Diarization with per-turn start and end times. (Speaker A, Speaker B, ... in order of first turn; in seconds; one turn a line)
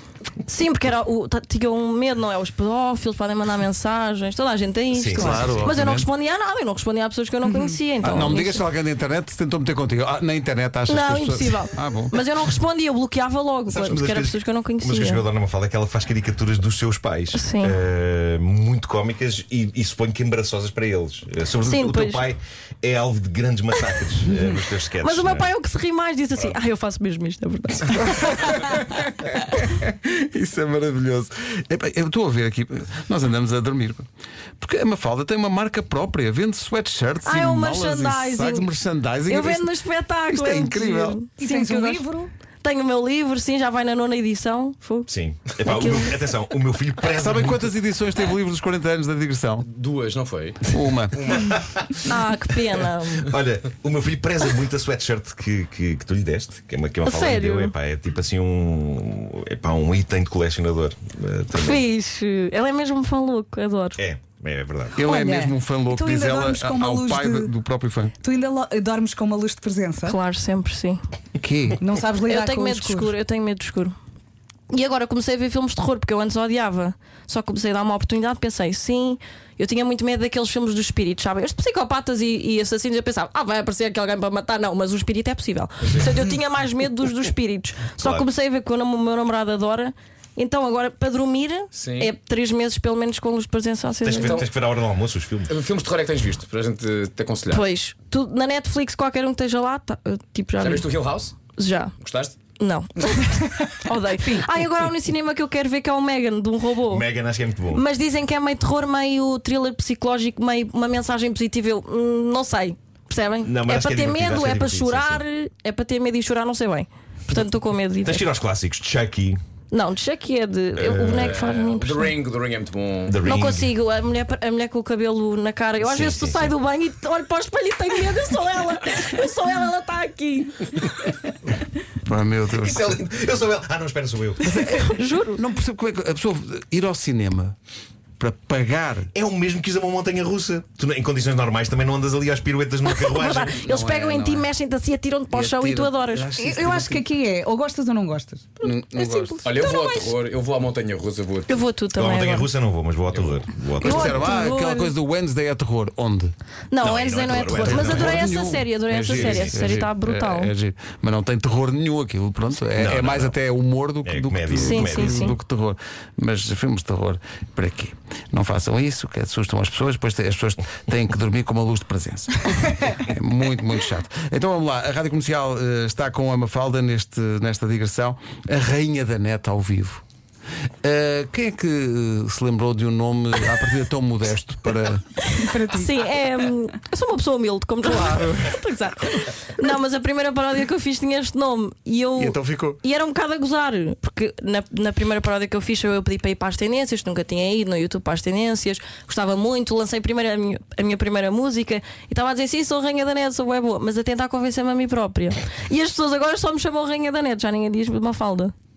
Speaker A: 0.4-8.7
Speaker B: 4.9-5.5
Speaker C: 5.1-6.0
Speaker C: 8.0-12.2
Speaker A: 10.9-15.2
Speaker B: 13.7-25.5
Speaker A: 17.3-17.7
Speaker A: 21.6-22.2
Speaker A: 25.0-27.9
Speaker C: 27.9-34.0
Speaker C: 34.6-39.7
Speaker A: 37.2-38.7
Speaker A: 39.2-42.0
Speaker C: 40.3-41.3
Speaker D: 41.4-42.3
Speaker A: 42.6-45.1
Speaker B: 45.1-47.7
Speaker C: 47.0-49.7
Speaker E: 49.6-51.5
Speaker C: 50.7-51.2
Speaker B: 51.5-51.9
Speaker A: 52.1-53.2
Speaker B: 53.2-61.8
Speaker A: 57.0-57.7
Speaker A: 61.6-64.0
Speaker B: 64.0-65.0
Speaker C: 65.0-68.1
Speaker D: 65.0-67.5
Speaker D: 68.2-70.2
Speaker A: 70.0-71.0
Speaker C: 71.4-71.8
Speaker D: 71.8-73.1
Speaker A: 72.2-73.9
Speaker A: 74.7-94.4
Speaker E: 91.7-92.1
Speaker B: 94.0-95.5
Speaker E: 94.2-94.5
Speaker E: 95.5-97.7
Speaker A: 97.5-100.9
Speaker E: 100.6-101.3
Speaker A: 101.5-101.8
Speaker E: 102.0-102.4
Speaker A: 102.6-103.1
Speaker A: 103.9-107.0
Speaker B: 106.9-107.8
Speaker A: 107.8-118.2
Speaker B: 113.4-115.2
Speaker B: 118.0-119.4
Speaker A: 119.7-122.1
Speaker B: 120.8-121.3
Speaker E: 121.0-123.2
Speaker B: 123.1-123.7
Speaker A: 123.2-130.6
Speaker B: 125.8-126.5
Speaker C: 132.0-133.0
Speaker B: 132.5-134.5
Speaker C: 134.4-137.6
Speaker A: 134.7-135.4
Speaker C: 138.2-139.1
Speaker B: 139.1-143.6
Speaker A: 142.9-146.2
Speaker C: 143.6-144.5
Speaker C: 145.3-147.1
Speaker D: 146.3-148.6
Speaker C: 148.6-149.6
Speaker E: 148.9-151.6
Speaker D: 149.2-149.6
Speaker A: 151.5-152.5
Speaker B: 151.9-154.2
Speaker E: 153.1-153.5
Speaker C: 153.8-156.3
Speaker A: 153.8-154.9
Speaker A: 156.7-160.5
Speaker B: 156.8-158.6
Speaker C: 157.5-180.0
Speaker B: 159.1-159.7
Speaker B: 162.7-163.3
Speaker B: 164.0-165.3
Speaker A: 164.7-165.3
Speaker C: 180.8-185.2
Speaker D: 185.3-185.9
Speaker A: 185.8-208.5
Speaker C: 187.8-188.6
Speaker C: 192.2-192.8